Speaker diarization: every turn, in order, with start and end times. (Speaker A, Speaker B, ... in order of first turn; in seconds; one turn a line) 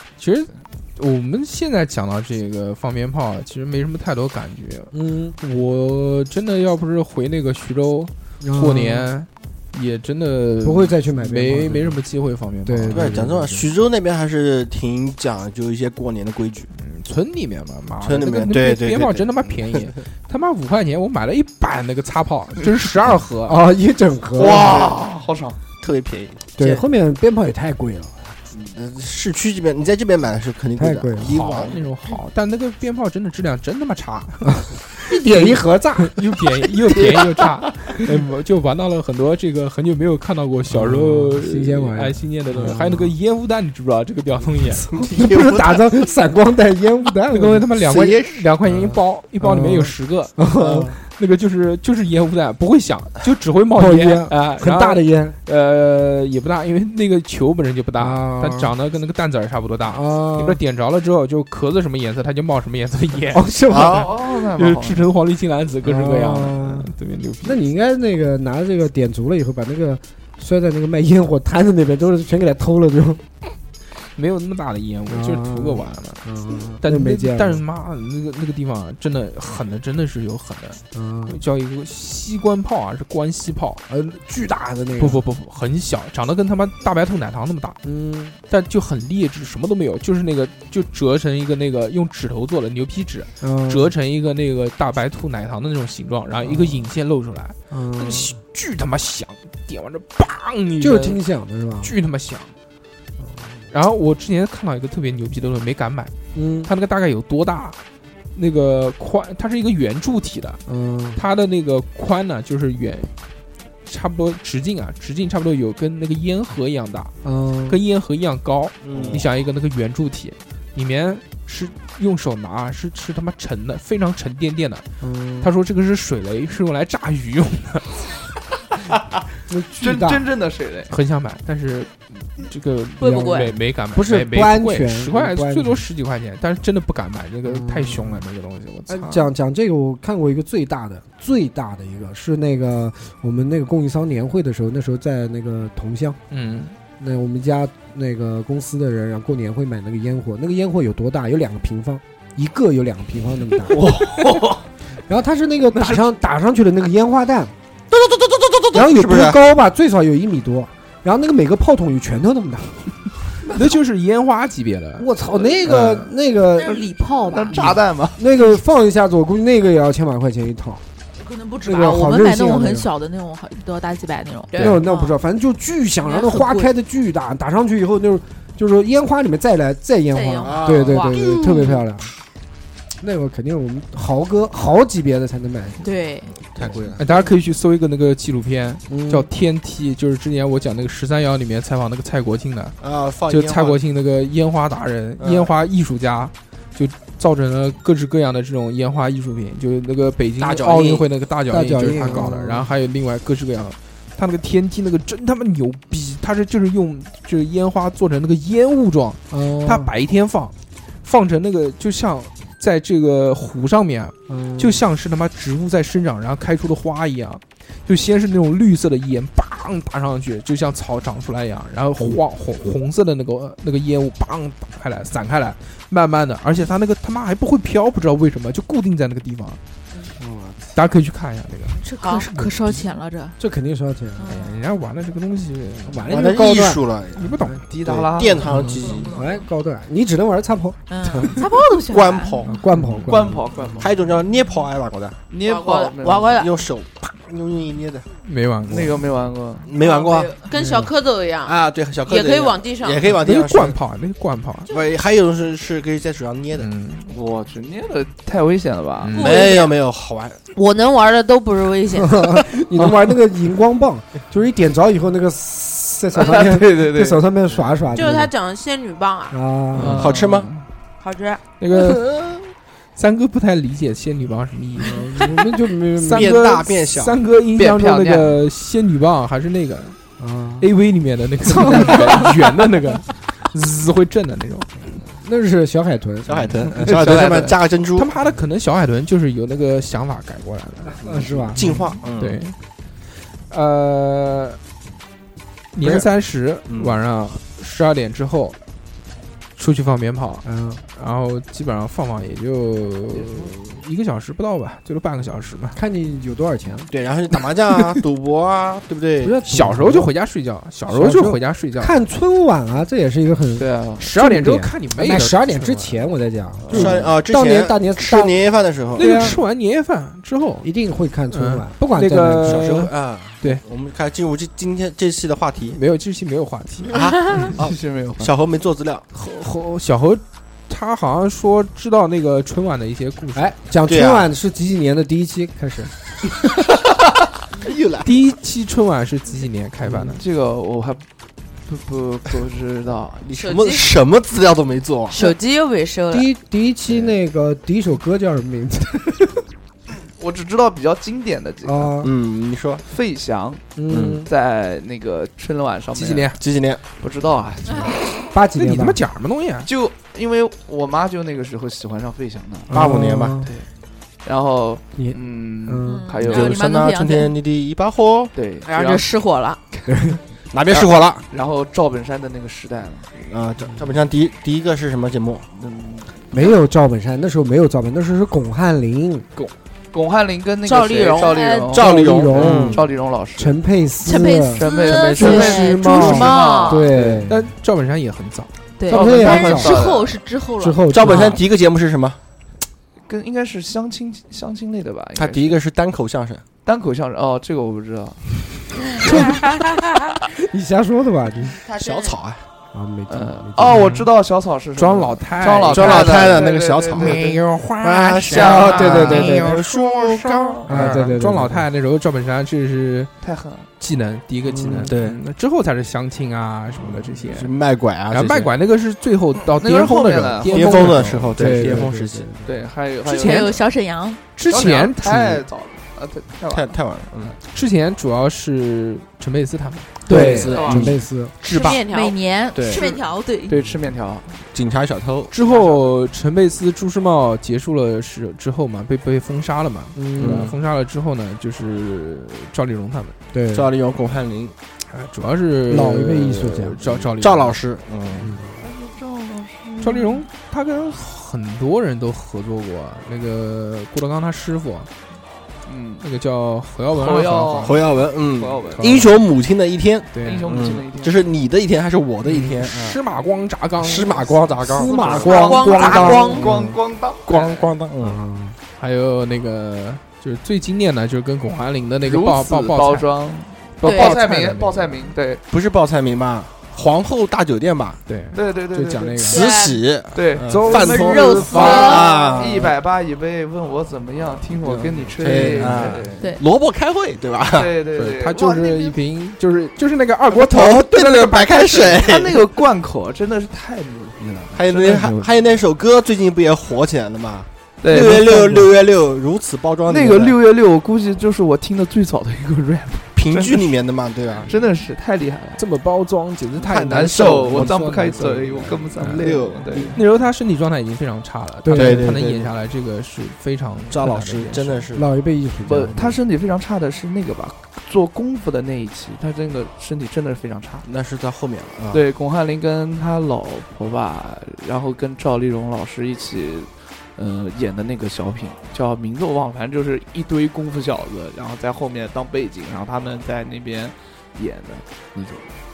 Speaker A: 0.2-13.1
Speaker B: 4.9-5.4
Speaker B: 8.4-9.1
Speaker B: 10.6-12.0
Speaker B: 12.7-13.7
Speaker C: 12.9-16.7
Speaker A: 16.7-23.6
Speaker C: 18.0-19.9
Speaker B: 23.4-24.7
Speaker C: 24.4-25.0
Speaker D: 24.4-25.6
Speaker C: 25.8-26.8
Speaker B: 26.6-28.4
Speaker C: 28.5-31.8
Speaker B: 30.8-31.3
Speaker A: 31.2-44.9
Speaker B: 35.1-36.2
Speaker B: 40.7-43.1
Speaker C: 44.8-45.8
Speaker B: 45.0-47.8
Speaker A: 47.3-50.4
Speaker C: 47.7-48.5
Speaker B: 48.6-51.0
Speaker C: 50.6-50.9
Speaker A: 51.0-63.6
Speaker B: 53.7-55.4
Speaker B: 58.0-58.7
Speaker B: 59.9-60.6
Speaker B: 63.3-64.1
Speaker C: 63.7-64.1
Speaker D: 63.8-65.0
Speaker A: 64.1-67.6
Speaker B: 65.8-66.9
Speaker B: 67.4-73.2
Speaker A: 74.1-76.2
Speaker B: 75.1-77.6
Speaker A: 76.8-83.8
Speaker B: 80.9-81.4
Speaker B: 83.9-85.2
Speaker A: 85.0-87.8
Speaker B: 87.8-88.3
Speaker A: 88.5-101.2
Speaker B: 93.4-93.9
Speaker B: 96.4-96.8
Speaker B: 97.7-98.3
Speaker B: 100.8-101.9
Speaker A: 101.8-102.5
Speaker B: 103.2-103.7
Speaker A: 103.7-106.1
Speaker B: 106.3-106.7
Speaker A: 106.6-107.8
Speaker A: 108.3-110.6
Speaker B: 110.7-111.2
Speaker A: 111.2-113.1
Speaker A: 113.8-117.1
Speaker B: 117.2-117.8
Speaker A: 117.7-124.8
Speaker C: 118.8-119.2
Speaker B: 125.0-125.5
Speaker A: 125.4-128.2
Speaker B: 129.5-130.3
Speaker D: 129.8-130.9
Speaker A: 130.9-139.3
Speaker B: 133.0-135.8
Speaker E: 133.0-133.5
Speaker B: 137.4-138.2
Speaker B: 138.9-146.2
Speaker A: 146.3-146.7
Speaker B: 147.0-154.0
Speaker C: 153.9-154.2
Speaker D: 154.1-154.5
Speaker B: 155.1-157.5
Speaker C: 157.9-159.4
Speaker B: 158.7-163.0
Speaker A: 163.5-165.1
Speaker B: 165.0-166.8
Speaker A: 165.6-166.1
Speaker E: 166.6-167.8
Speaker D: 167.3-168.2
Speaker B: 168.2-170.8
Speaker E: 171.2-175.1
Speaker B: 171.6-172.9
Speaker A: 174.5-174.8
Speaker B: 174.6-182.1
Speaker E: 176.0-176.7
Speaker E: 180.1-181.8
Speaker C: 180.4-181.1
Speaker B: 183.0-185.8
Speaker E: 185.8-186.3
Speaker C: 186.3-187.1
Speaker A: 187.0-192.8
Speaker B: 188.9-189.3
Speaker C: 192.8-193.8
Speaker A: 193.3-229.6
Speaker C: 195.2-195.5
Speaker C: 200.4-201.1
Speaker B: 201.5-202.7
Speaker B: 209.3-209.9
Speaker B: 214.3-214.8
Speaker B: 230.2-230.7
Speaker A: 230.7-232.8
Speaker E: 231.8-233.3
Speaker F: 232.0-232.2
Speaker B: 233.4-234.3
Speaker E: 234.2-234.6
Speaker A: 234.3-236.1
Speaker B: 235.8-236.8
Speaker C: 236.1-239.2
Speaker A: 237.1-237.6
Speaker D: 237.7-239.1
Speaker B: 238.6-241.4
Speaker E: 240.9-242.5
Speaker C: 241.9-242.5
Speaker B: 242.4-243.8
Speaker A: 242.7-243.2
Speaker D: 243.1-243.9
Speaker C: 243.8-245.2
Speaker D: 245.3-246.4
Speaker F: 245.4-246.6
Speaker C: 246.3-248.1
Speaker A: 248.2-249.0
Speaker D: 248.7-249.7
Speaker C: 249.7-250.3
Speaker F: 249.8-253.1
Speaker E: 249.8-250.2
Speaker B: 250.5-250.9
Speaker C: 251.4-253.8
Speaker A: 253.2-254.7
Speaker C: 254.7-256.7
Speaker A: 256.6-257.1
Speaker D: 257.1-259.2
Speaker A: 259.0-259.5
Speaker F: 259.1-259.7
Speaker C: 259.2-260.4
Speaker F: 260.5-262.4
Speaker B: 261.9-268.3
Speaker D: 266.1-267.2
Speaker F: 267.9-269.4
Speaker B: 269.3-270.0
Speaker D: 269.8-270.6
Speaker C: 269.8-270.5
Speaker F: 271.0-271.4
Speaker A: 271.6-272.4
Speaker A: 272.9-275.0
Speaker B: 274.8-276.4
Speaker A: 276.0-280.0
Speaker C: 276.1-277.2
Speaker D: 277.6-278.4
Speaker B: 280.2-280.7
Speaker A: 280.6-284.7
Speaker B: 281.4-282.3
Speaker B: 285.0-287.1
Speaker C: 286.2-288.1
Speaker D: 286.9-287.5
Speaker A: 287.1-292.6
Speaker B: 290.9-291.6
Speaker C: 291.5-292.4
Speaker A: 293.2-294.6
Speaker A: 295.7-298.6
Speaker C: 296.7-297.0
Speaker A: 299.6-305.8
Speaker B: 300.4-300.8
Speaker B: 305.7-306.9
Speaker C: 306.9-309.4
Speaker B: 309.2-310.1
Speaker A: 309.5-311.9
Speaker B: 310.9-318.3
Speaker D: 313.6-314.0
Speaker A: 314.0-316.0
Speaker A: 316.7-317.1
Speaker C: 316.7-319.4
Speaker B: 318.9-319.4
Speaker A: 318.9-320.7
Speaker B: 320.6-322.8
Speaker A: 321.3-323.6
Speaker C: 322.4-325.8
Speaker A: 325.7-327.5
Speaker C: 326.9-329.1
Speaker D: 327.4-328.3
Speaker A: 329.1-333.5
Speaker B: 333.3-335.9
Speaker C: 333.9-334.3
Speaker C: 337.6-338.1
Speaker A: 338.0-340.2
Speaker D: 340.1-341.1
Speaker D: 341.6-343.3
Speaker C: 343.2-345.2
Speaker F: 343.3-343.9
Speaker F: 345.1-346.3
Speaker B: 346.1-349.3
Speaker D: 350.2-351.9
Speaker B: 351.6-352.1
Speaker C: 352.0-352.8
Speaker D: 352.9-356.3
Speaker B: 353.8-354.3
Speaker C: 353.9-354.3
Speaker A: 355.9-356.4
Speaker C: 356.4-356.8
Speaker D: 357.0-358.2
Speaker E: 357.7-358.0
Speaker B: 358.3-359.0
Speaker A: 358.5-359.7
Speaker D: 359.6-362.7
Speaker B: 362.7-363.5
Speaker C: 362.7-363.5
Speaker D: 364.2-366.6
Speaker B: 365.0-366.1
Speaker E: 365.8-367.4
Speaker C: 366.2-368.3
Speaker D: 368.3-369.1
Speaker F: 368.6-369.6
Speaker B: 369.9-370.2
Speaker C: 370.5-371.2
Speaker D: 370.7-373.1
Speaker C: 373.2-376.5
Speaker B: 376.3-379.2
Speaker D: 379.4-383.6
Speaker F: 380.6-381.7
Speaker E: 381.3-381.7
Speaker C: 381.7-382.9
Speaker B: 381.7-384.6
Speaker E: 384.0-386.6
Speaker D: 384.6-387.3
Speaker F: 384.6-386.8
Speaker C: 384.8-386.5
Speaker B: 385.3-387.5
Speaker A: 387.3-388.5
Speaker E: 388.8-390.9
Speaker B: 388.9-389.8
Speaker D: 388.9-390.2
Speaker B: 390.6-391.4
Speaker C: 390.9-392.2
Speaker D: 393.1-395.6
Speaker C: 395.1-396.4
Speaker D: 396.6-399.1
Speaker B: 399.0-399.6
Speaker B: 400.3-401.6
Speaker F: 401.6-402.2
Speaker C: 401.7-402.5
Speaker B: 402.7-403.9
Speaker D: 403.1-407.4
Speaker A: 403.6-404.0
Speaker A: 404.8-406.4
Speaker C: 405.7-410.7
Speaker A: 406.9-409.8
Speaker D: 408.3-409.4
Speaker B: 408.4-409.5
Speaker A: 410.6-413.1
Speaker B: 410.7-411.6
Speaker D: 413.2-413.7
Speaker A: 413.8-417.5
Speaker B: 414.4-414.9
Speaker C: 414.8-415.2
Speaker C: 417.2-418.5
Speaker A: 418.1-421.8
Speaker D: 419.5-421.0
Speaker C: 420.4-422.3
Speaker B: 421.3-422.5
Speaker D: 422.4-423.6
Speaker E: 423.0-424.2
Speaker A: 424.3-425.4
Speaker D: 424.5-427.3
Speaker C: 426.5-427.4
Speaker A: 427.5-430.1
Speaker C: 430.1-431.8
Speaker B: 430.1-431.4
Speaker D: 430.1-430.9
Speaker F: 431.4-432.2
Speaker E: 431.7-433.6
Speaker C: 432.5-432.8
Speaker D: 433.5-434.4
Speaker C: 434.5-435.3
Speaker A: 435.3-443.1
Speaker D: 435.4-435.8
Speaker B: 439.9-440.5
Speaker C: 440.2-440.5
Speaker B: 443.3-443.7
Speaker C: 443.5-444.5
Speaker A: 444.9-447.6
Speaker B: 445.7-447.0
Speaker C: 447.1-448.4
Speaker B: 448.2-448.6
Speaker D: 448.6-450.2
Speaker A: 449.8-454.9
Speaker D: 455.6-456.0
Speaker A: 456.0-457.8
Speaker D: 456.9-458.9
Speaker C: 457.6-463.0
Speaker A: 458.8-459.1
Speaker A: 460.1-460.5
Speaker D: 460.2-461.2
Speaker A: 462.2-464.3
Speaker C: 463.8-466.7
Speaker B: 464.7-466.7
Speaker F: 465.2-466.5
Speaker D: 465.3-467.7
Speaker C: 467.2-468.2
Speaker B: 468.0-468.6
Speaker A: 468.8-473.1
Speaker D: 472.0-475.4
Speaker A: 473.8-475.0
Speaker E: 473.8-474.2
Speaker C: 475.5-478.0
Speaker A: 478.1-479.5
Speaker D: 478.3-479.3
Speaker C: 479.3-482.7
Speaker F: 479.3-479.7
Speaker D: 480.1-486.3
Speaker A: 480.5-482.0
Speaker F: 480.8-482.3
Speaker A: 484.7-486.1
Speaker C: 485.2-487.7
Speaker D: 487.5-488.9
Speaker A: 488.0-492.0
Speaker C: 490.3-492.4
Speaker D: 491.9-495.3
Speaker C: 494.3-500.4
Speaker D: 497.8-498.7
Speaker D: 499.9-503.8
Speaker C: 503.1-504.5
Speaker D: 504.4-505.6
Speaker A: 505.6-508.2
Speaker C: 506.6-510.0
Speaker D: 506.9-510.0
Speaker B: 508.0-508.2
Speaker A: 509.0-509.2
Speaker A: 509.9-514.8
Speaker B: 511.6-512.2
Speaker C: 511.7-512.5
Speaker C: 513.9-515.1
Speaker B: 514.9-516.2
Speaker D: 515.6-520.9
Speaker C: 520.8-522.0
Speaker D: 521.9-535.5